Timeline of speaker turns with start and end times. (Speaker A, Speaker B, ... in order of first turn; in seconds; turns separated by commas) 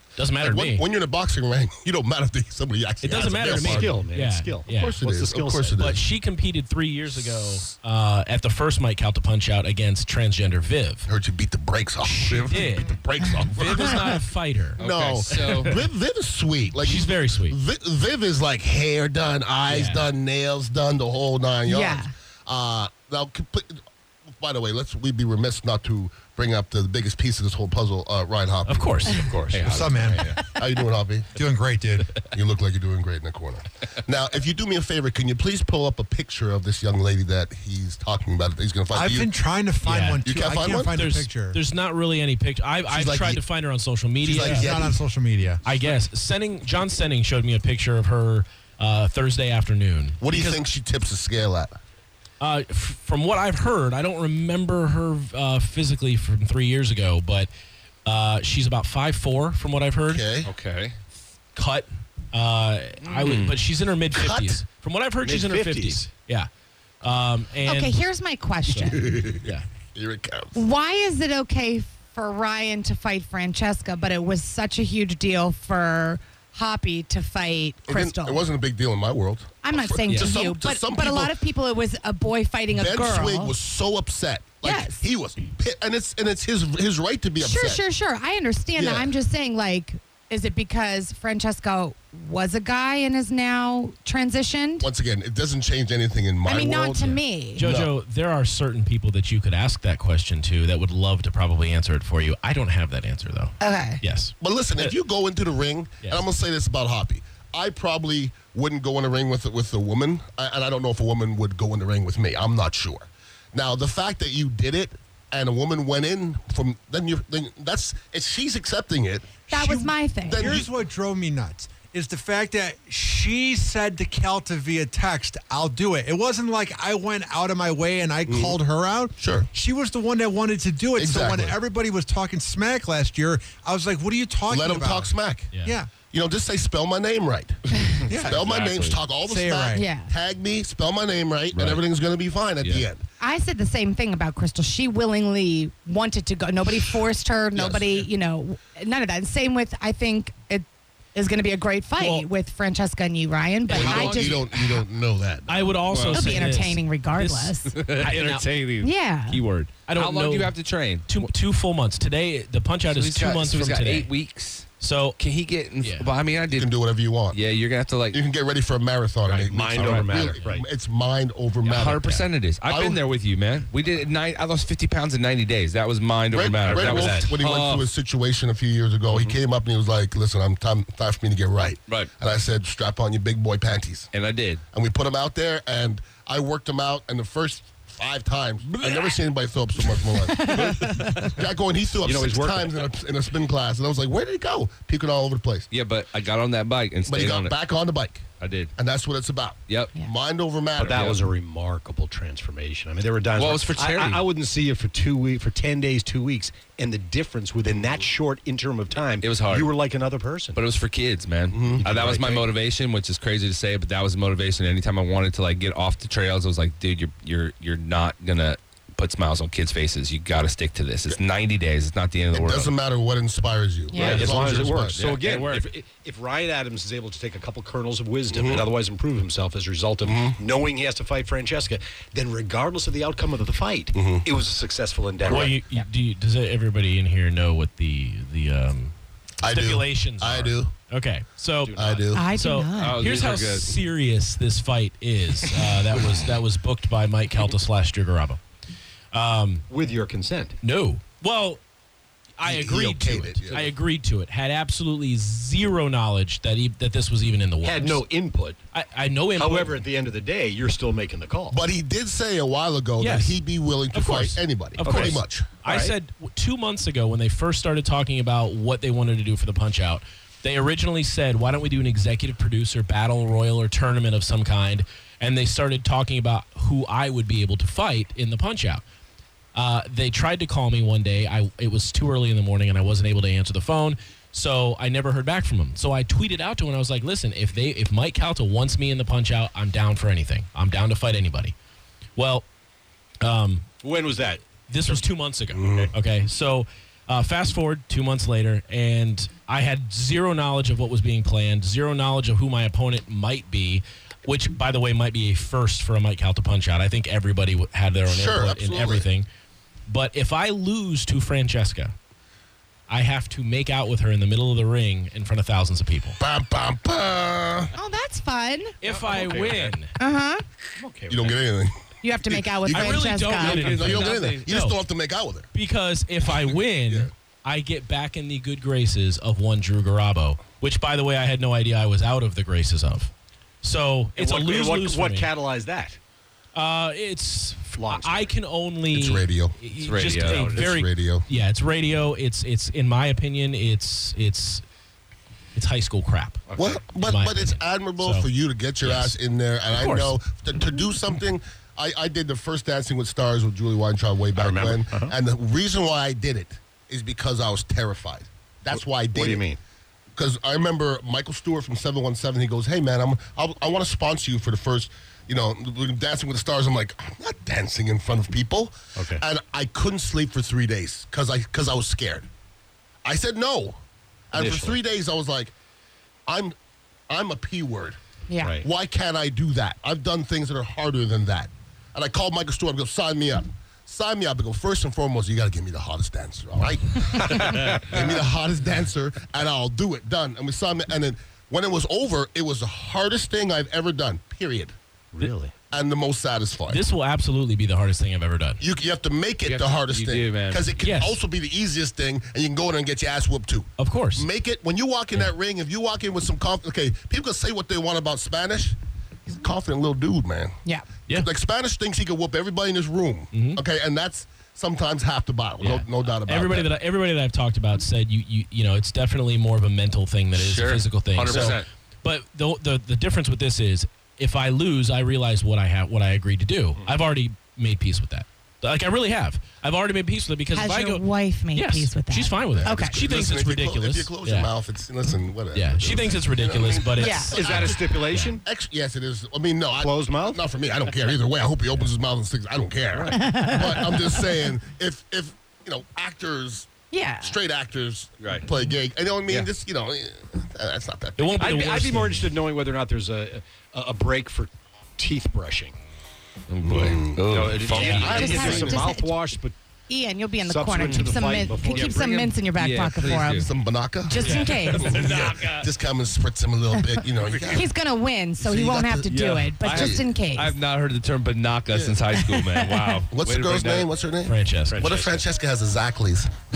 Speaker A: 0.2-0.8, Speaker B: 0.4-3.9, Speaker A: 3.0-5.0, Speaker C: 3.1-5.8, Speaker B: 4.7-6.0, Speaker A: 5.8-11.1, Speaker B: 11.1-14.2, Speaker D: 12.2-12.7, Speaker A: 12.4-12.9, Speaker A: 13.6-15.9, Speaker D: 14.8-15.8, Speaker B: 14.8-23.8, Speaker A: 16.8-17.6, Speaker A: 19.7-20.1, Speaker E: 21.6-22.1, Speaker B: 24.4-29.2, Speaker A: 28.7-29.6, Speaker D: 29.3-30.4, Speaker F: 29.6-30.4, Speaker B: 30.4-31.3, Speaker F: 31.3-32.1, Speaker B: 32.3-39.3, Speaker F: 38.9-41.6, Speaker A: 39.8-40.3, Speaker B: 40.2-41.0, Speaker A: 40.8-44.8, Speaker B: 42.9-43.4, Speaker B: 44.2-45.0, Speaker F: 44.2-46.0, Speaker A: 45.6-50.6, Speaker B: 50.2-51.8, Speaker A: 52.4-57.5, Speaker A: 58.1-60.2, Speaker B: 60.1-60.5, Speaker D: 60.5-61.0, Speaker A: 61.6-66.5, Speaker D: 63.2-63.6, Speaker B: 64.1-64.6, Speaker C: 65.2-66.1, Speaker A: 67.0-68.0, Speaker E: 67.7-69.1, Speaker A: 68.7-69.7, Speaker B: 68.8-70.6, Speaker E: 70.5-78.5, Speaker B: 77.9-81.3, Speaker E: 79.6-83.5, Speaker B: 82.7-87.8, Speaker E: 84.6-85.0, Speaker E: 87.4-94.9, Speaker B: 88.8-89.1, Speaker B: 94.8-97.9, Speaker E: 96.5-97.7, Speaker A: 97.5-105.0, Speaker E: 103.6-104.0, Speaker B: 104.4-120.7, Speaker E: 119.5-120.6, Speaker F: 120.3-135.9, Speaker B: 128.3-128.6, Speaker B: 129.2-129.5, Speaker B: 130.9-131.6, Speaker B: 134.5-135.5, Speaker A: 135.5-135.8, Speaker B: 136.1-143.0, Speaker F: 138.1-138.4, Speaker D: 138.1-139.0, Speaker F: 139.2-139.9, Speaker E: 139.7-140.1, Speaker D: 141.5-141.8, Speaker E: 143.2-154.5, Speaker B: 147.6-148.1, Speaker A: 152.0-152.2, Speaker A: 153.7-154.1, Speaker B: 153.7-155.7, Speaker D: 153.9-154.6, Speaker A: 155.5-158.5, Speaker D: 155.9-156.6, Speaker E: 156.1-157.7, Speaker D: 157.7-161.1, Speaker E: 158.8-159.4, Speaker A: 159.3-164.1, Speaker D: 162.8-166.8, Speaker A: 164.8-165.2, Speaker A: 165.8-166.1, Speaker B: 166.5-167.4, Speaker D: 167.3-168.2, Speaker B: 168.1-173.0, Speaker C: 169.3-170.7, Speaker A: 169.8-170.5, Speaker D: 171.6-177.9, Speaker B: 176.3-184.1, Speaker C: 176.6-177.4, Speaker D: 184.1-184.6, Speaker B: 184.7-195.7, Speaker D: 188.8-189.1, Speaker E: 190.3-190.7, Speaker D: 190.6-191.3, Speaker C: 192.0-192.7, Speaker D: 195.7-197.7, Speaker B: 197.0-201.1, Speaker D: 198.4-198.7, Speaker D: 199.7-199.9, Speaker C: 200.8-210.6, Speaker D: 200.9-201.3, Speaker D: 203.4-204.2, Speaker D: 209.2-209.7, Speaker D: 210.6-222.7, Speaker B: 211.5-211.8, Speaker C: 211.7-212.6, Speaker B: 222.3-225.0, Speaker E: 223.9-224.3, Speaker C: 224.0-235.6, Speaker D: 224.0-225.7, Speaker B: 228.3-228.7, Speaker B: 230.1-230.4, Speaker B: 233.9-234.2, Speaker A: 235.3-238.9, Speaker B: 239.4-240.7, Speaker A: 239.5-248.4, Speaker C: 241.6-242.2, Speaker B: 241.8-242.3, Speaker E: 242.1-243.0, Speaker D: 242.8-243.8, Speaker A: 249.1-249.7, Speaker C: 249.7-250.6, Speaker A: 250.6-251.6, Speaker A: 252.4-258.0, Speaker B: 252.4-253.7, Speaker C: 257.6-258.6, Speaker A: 258.7-259.8, Speaker C: 259.4-261.6, Speaker B: 261.5-265.5, Speaker A: 263.0-263.4, Speaker A: 263.9-278.8, Speaker C: 264.8-265.9, Speaker A: 279.6-291.5, Speaker A: 292.2-292.4, Speaker A: 293.2-293.7, Speaker C: 293.8-295.0, Speaker A: 294.7-309.3, Speaker B: 295.5-295.9, Speaker B: 308.1-309.1, Speaker A: 309.9-311.9, Speaker A: 312.9-316.2, Speaker B: 316.2-317.7, Speaker E: 317.8-318.8, Speaker A: 318.8-319.9, Speaker D: 318.8-319.8, Speaker E: 320.0-320.4, Speaker C: 320.8-321.3, Speaker B: 321.1-325.5, Speaker E: 322.0-323.8, Speaker A: 322.7-324.8, Speaker D: 323.4-324.5, Speaker A: 325.5-333.1, Speaker A: 333.6-335.3, Speaker C: 334.2-336.0, Speaker A: 336.6-344.6, Speaker C: 337.8-338.4, Speaker B: 338.9-339.6, Speaker D: 339.8-340.4, Speaker C: 340.3-340.7, Speaker B: 340.3-341.3, Speaker A: 345.6-348.3, Speaker C: 346.5-346.8, Speaker B: 346.6-359.4, Speaker A: 348.8-349.2, Speaker A: 349.7-350.2, Speaker C: 354.4-355.1, Speaker C: 358.7-359.6, Speaker B: 360.2-372.3, Speaker C: 369.0-369.2, Speaker B: 373.1-373.8, Speaker B: 374.3-375.5, Speaker C: 374.3-374.8, Speaker B: 376.3-376.5, Speaker B: 377.1-378.0, Speaker E: 378.3-378.6, Speaker B: 378.6-394.8, Speaker C: 395.1-395.5, Speaker B: 395.7-396.8, Speaker A: 396.7-398.6, Speaker B: 398.6-410.6, Speaker D: 399.4-400.6, Speaker A: 400.8-401.2, Speaker A: 403.8-404.3, Speaker B: 411.1-416.7, Speaker A: 413.3-413.6, Speaker A: 415.6-431.0, Speaker D: 420.3-421.6, Speaker C: 421.3-421.6, Speaker E: 430.5-433.0, Speaker A: 431.5-434.5, Speaker B: 432.6-437.9, Speaker A: 435.5-438.4, Speaker E: 437.0-437.4, Speaker C: 437.2-438.4, Speaker B: 438.4-446.7, Speaker C: 439.8-440.4, Speaker E: 443.1-444.2, Speaker E: 446.9-447.4, Speaker B: 447.2-451.7, Speaker C: 448.2-448.5, Speaker A: 451.2-452.3, Speaker C: 451.4-455.8, Speaker D: 456.5-458.5, Speaker B: 456.6-457.2, Speaker C: 457.2-459.6, Speaker A: 457.6-458.5, Speaker B: 457.8-458.9, Speaker E: 458.0-459.2, Speaker E: 459.9-463.5, Speaker C: 460.4-462.4, Speaker D: 460.8-463.5, Speaker B: 463.4-467.7, Speaker E: 464.1-465.2, Speaker A: 464.1-464.6, Speaker D: 464.7-465.7, Speaker D: 467.2-467.6, Speaker E: 467.5-470.5, Speaker B: 468.4-469.1, Speaker D: 469.1-473.9, Speaker B: 469.6-470.1, Speaker B: 471.7-472.0, Speaker E: 472.1-472.9, Speaker B: 473.1-476.3, Speaker A: 474.3-474.8, Speaker C: 474.7-475.2